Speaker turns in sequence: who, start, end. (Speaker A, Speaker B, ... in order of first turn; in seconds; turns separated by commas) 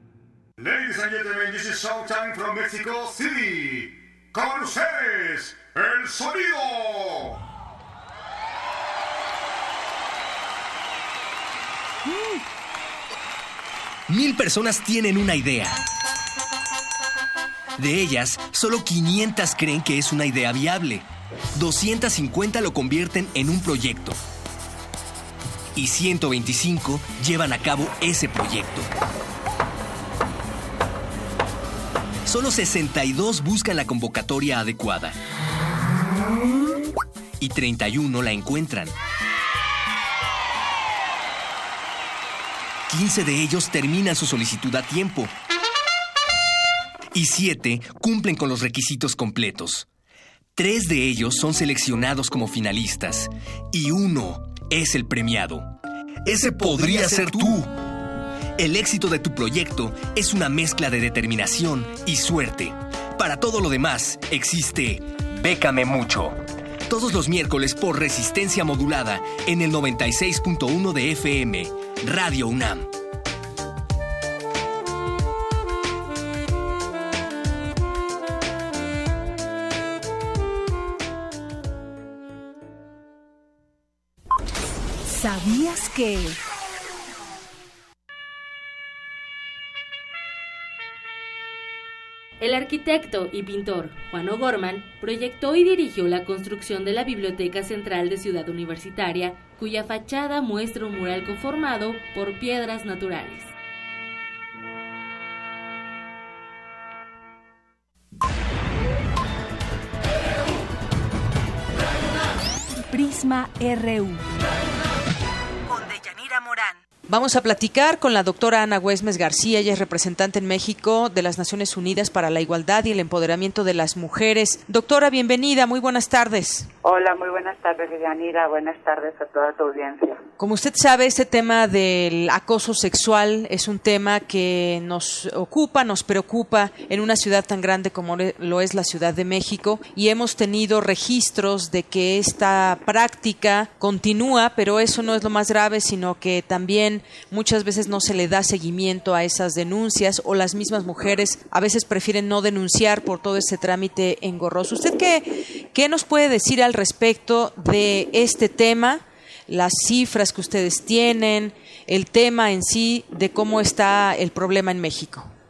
Speaker A: 0.6-7.4, Speaker B: 14.1-15.8, Speaker B: 17.8-24.2, Speaker B: 25.7-28.9, Speaker B: 32.2-35.1, Speaker B: 37.4-38.9, Speaker B: 42.9-45.3, Speaker B: 47.1-49.9, Speaker B: 50.5-55.7, Speaker B: 56.2-57.7, Speaker B: 58.6-72.9, Speaker C: 85.0-86.4, Speaker D: 92.4-103.5, Speaker C: 112.8-114.2, Speaker C: 115.7-116.8, Speaker E: 117.1-126.7, Speaker F: 126.8-130.2, Speaker E: 130.4-165.3